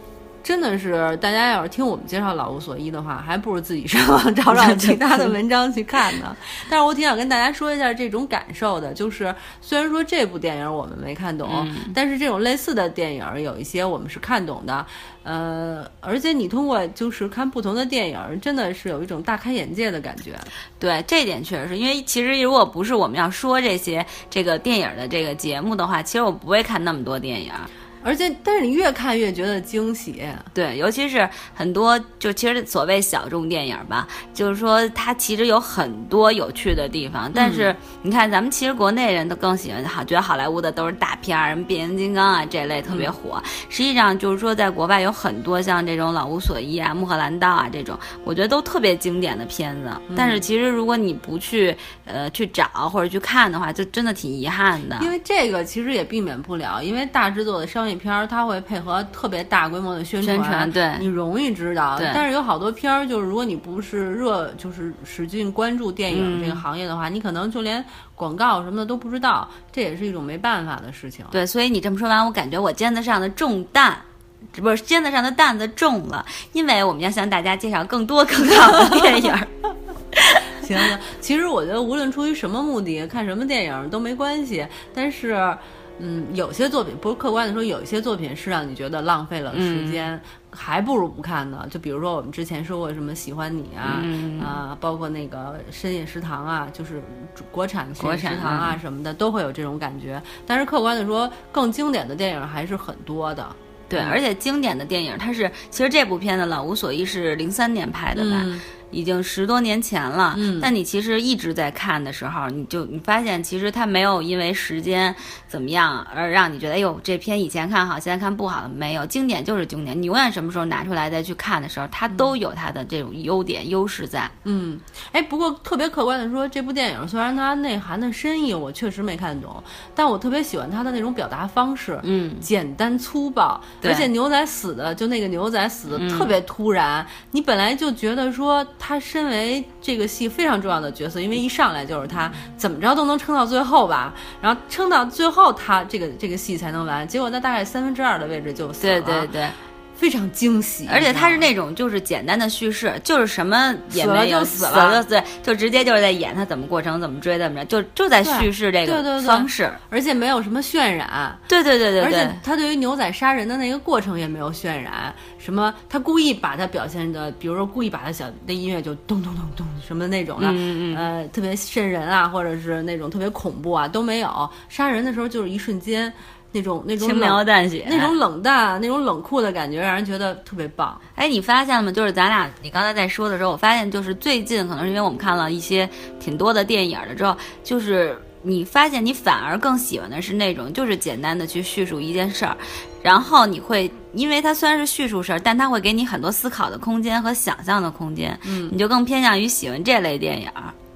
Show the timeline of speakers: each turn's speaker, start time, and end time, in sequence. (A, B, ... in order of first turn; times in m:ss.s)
0:00.4-0:20.5 A
0:04.5-0:05.3 B
0:11.4-0:11.9 B
0:20.8-0:27.7 B
0:28.0-0:30.5 A
0:30.5-0:55.1 B
0:37.3-0:37.7 A
0:42.8-0:43.1 A
0:50.1-0:50.4 A
0:55.0-1:11.4 A
1:00.2-1:01.0 B
1:02.0-1:02.2 B
1:06.1-1:06.6 B
1:11.3-1:19.5 B
1:20.1-1:20.6 B
1:20.6-1:44.2 A
1:29.5-1:30.0 B
1:33.8-1:34.6 B
1:38.0-1:38.8 B
1:43.9-2:04.3 B
1:48.1-1:48.6 A
1:50.3-1:50.7 A
2:02.1-2:02.3 A
2:04.4-2:29.3 A
2:12.0-2:12.5 B
2:13.8-2:14.1 B
2:15.9-2:16.3 B
2:28.8-2:29.6 B
2:30.0-2:31.5 A
2:30.9-2:39.8 B
2:33.9-2:35.0 A
2:38.2-2:41.4 A
2:41.5-2:42.4 B
2:42.0-3:01.0 A
2:50.4-2:51.0 B
2:57.0-2:58.1 B
3:01.2-3:20.7 B
3:18.4-3:18.8 A